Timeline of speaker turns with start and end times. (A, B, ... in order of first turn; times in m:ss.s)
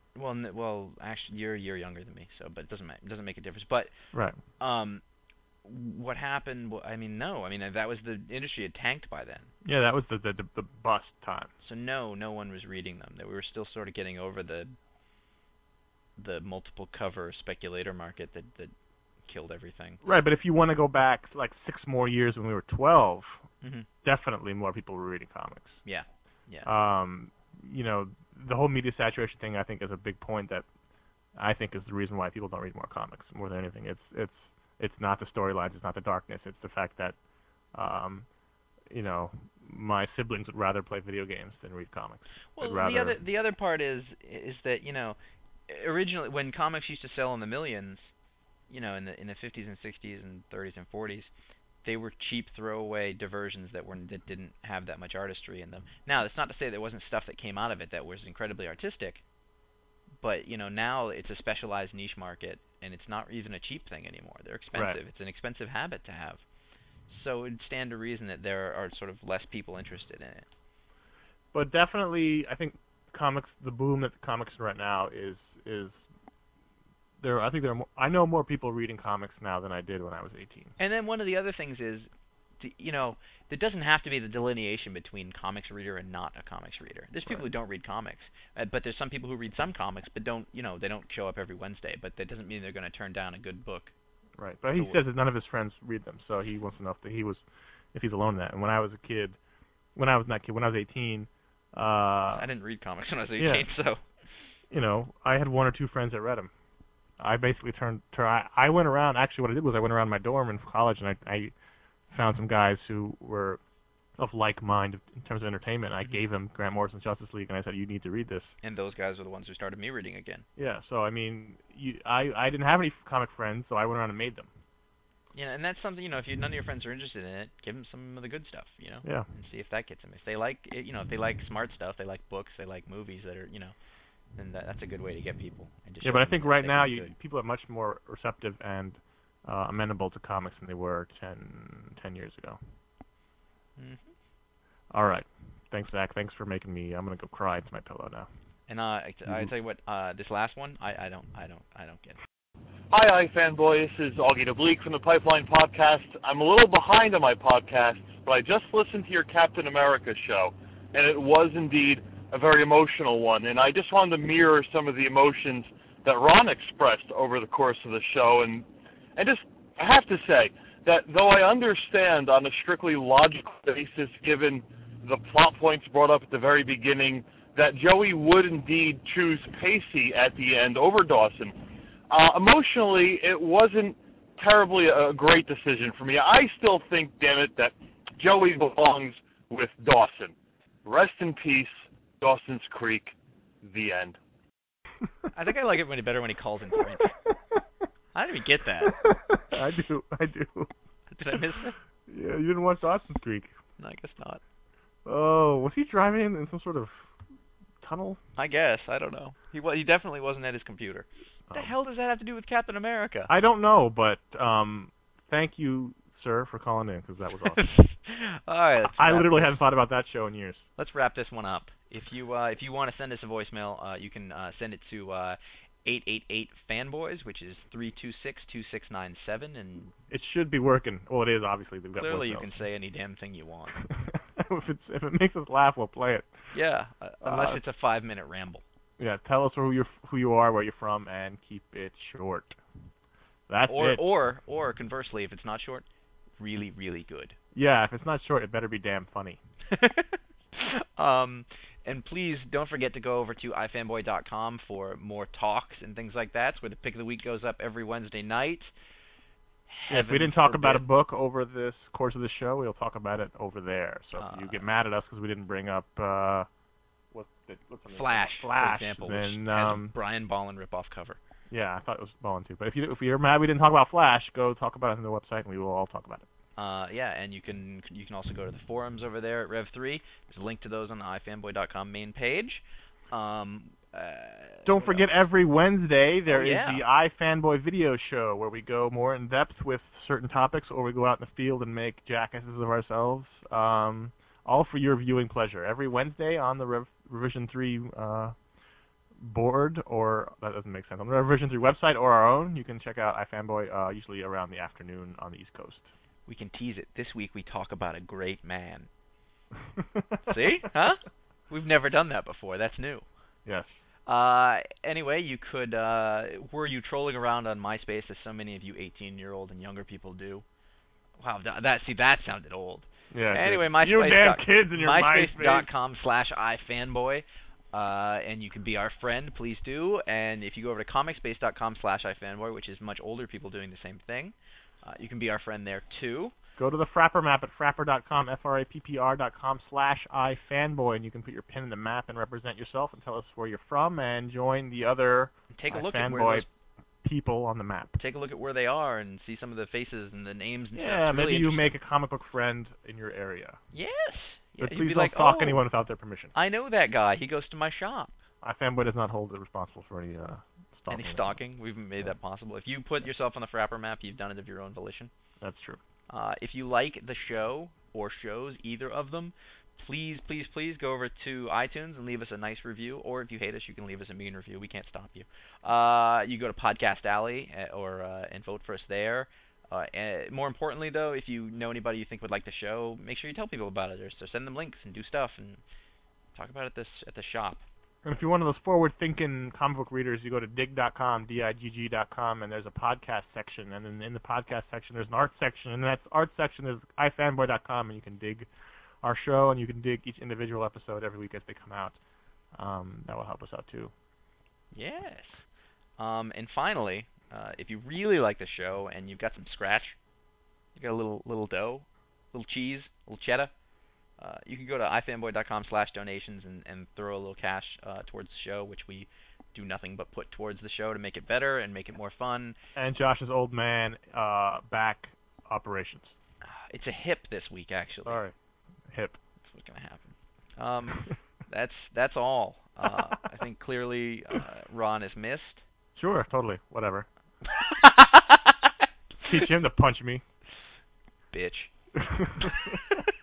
0:00.1-0:03.9 A
0:04.6-0:05.0 A
0:05.6-0:09.5 A
0:09.6-0:11.5 B
0:11.6-0:14.7 A
0:16.2-0:18.7 A
0:19.2-0:20.0 A
0:20.0-0:23.4 B
0:23.6-0:23.9 A
0:24.0-0:25.8 B
0:25.8-0:26.7 A
0:26.6-0:30.6 B
0:31.4-0:37.2 B
0:37.7-0:38.3 B
0:38.9-0:43.2 B
0:42.6-0:45.2 A
0:45.7-0:48.1 A
0:48.7-0:51.3 A
0:51.8-0:59.2 A
1:00.2-1:06.4 A
1:04.7-1:05.0 B
1:07.1-1:10.4 A
1:11.5-1:16.0 B
1:17.2-1:20.7 B
1:20.8-1:22.1 A
1:22.6-1:33.9 A
1:34.4-1:39.4 B
1:39.9-1:42.5 B
1:42.4-1:44.0 A
1:43.4-1:43.7 B
1:44.7-1:46.5 B
1:47.2-1:51.5 B
1:52.1-1:53.6 B
1:54.2-1:58.5 B
1:58.6-2:00.4 A
2:00.6-2:04.5 B
2:05.3-2:13.7 A
2:14.4-2:17.1 A
2:16.0-2:22.6 B
2:23.8-2:24.1 A
2:24.9-2:28.3 B
2:28.7-2:32.2 A
2:32.9-3:01.6 C
3:02.1-3:14.2 C
3:15.3-3:17.1 A
3:18.1-3:19.0 A
3:18.8-3:20.7 B
3:21.1-3:21.8 A
3:22.1-3:23.5 B
3:23.8-3:24.4 A
3:25.0-3:27.1 B
3:27.8-3:28.2 B
3:28.4-3:33.3 A
3:33.3-3:37.6 B
3:37.5-3:39.6 A
3:38.8-3:40.6 B
3:40.8-3:49.9 A
3:50.1-3:52.5 B
3:52.0-3:53.8 A
3:53.8-3:56.3 B
3:56.5-3:58.6 A
3:57.2-3:57.6 B
3:59.0-4:02.6 B
4:03.5-4:04.0 B
4:03.7-4:05.8 A
4:06.4-4:07.4 A
4:07.5-4:09.4 B
4:09.7-4:18.7 A
4:19.7-4:20.8 A
4:19.9-4:26.5 B
4:24.2-4:24.6 A
4:27.1-4:29.9 B
4:27.9-4:31.2 A
4:31.5-4:36.2 B
4:36.6-4:45.0 A
4:44.6-4:58.3 B
4:46.3-4:46.8 A
4:59.2-5:05.9 B
5:06.3-5:08.9 A
5:09.8-5:10.2 B
5:10.3-5:13.0 A
5:13.4-5:13.7 B
5:14.1-5:20.4 A
5:21.2-5:36.3 A
5:23.1-5:25.7 B
5:36.6-5:46.4 B
5:45.5-5:46.5 A
5:47.0-5:48.0 B
5:48.0-5:51.8 A
5:50.7-5:53.6 B
5:53.7-5:55.6 A
5:54.6-5:56.3 B
5:56.3-5:58.1 A
5:58.4-6:01.4 B
6:00.9-6:05.1 A
6:05.4-6:05.8 B
6:06.1-6:25.6 A
6:26.3-6:27.6 A
6:28.0-6:38.5 B
6:39.0-6:42.0 B
6:42.5-6:43.9 B
6:44.7-6:45.4 A
6:46.0-6:50.0 A
6:50.8-6:53.5 A
6:54.2-7:02.6 A
7:02.8-7:06.1 B
7:06.4-7:08.2 A
7:08.0-7:08.3 B
7:08.9-7:09.2 B
7:09.4-7:15.6 A
7:16.0-7:17.1 B
7:17.5-7:18.7 A
7:19.3-7:20.2 B
7:21.3-7:21.7 A
7:22.0-7:23.0 B